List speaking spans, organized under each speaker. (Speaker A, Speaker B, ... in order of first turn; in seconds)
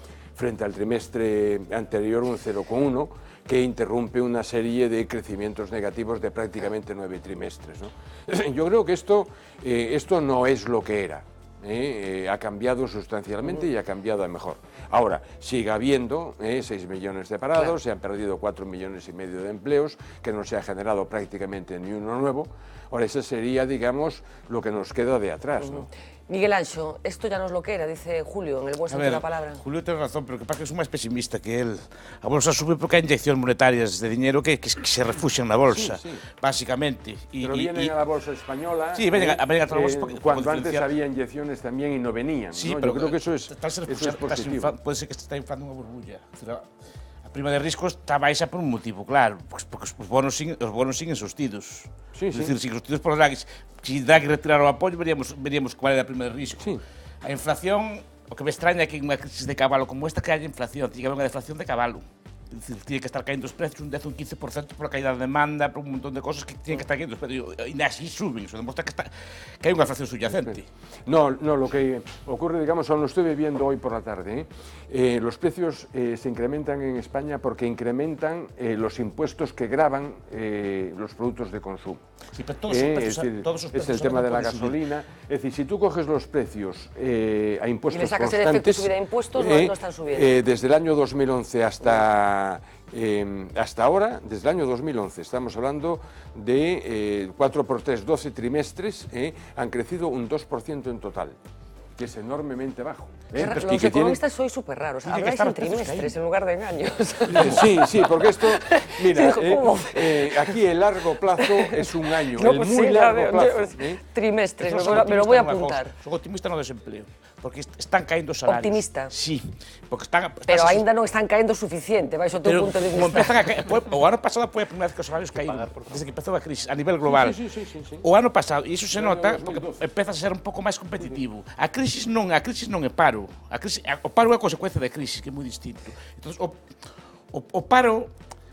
Speaker A: 0.3-25.9, 35.7-36.2, 37.4-44.8, 52.1-52.6, 70.4-82.0, 82.7-101.4, 102.0-104.2, 107.3-114.0, 127.0-128.0, 128.9-129.8
Speaker B: 25.6-29.6, 87.9-90.4, 103.3-110.5, 111.4-115.9, 118.5-119.1, 120.5-123.5
Speaker C: 28.9-37.9, 39.0-40.9, 42.5-46.7, 47.3-56.7, 57.2-70.7, 82.3-84.8, 103.4-103.9, 105.0-106.2, 114.6-120.8, 122.4-127.4, 128.0-136.6, 137.3-138.1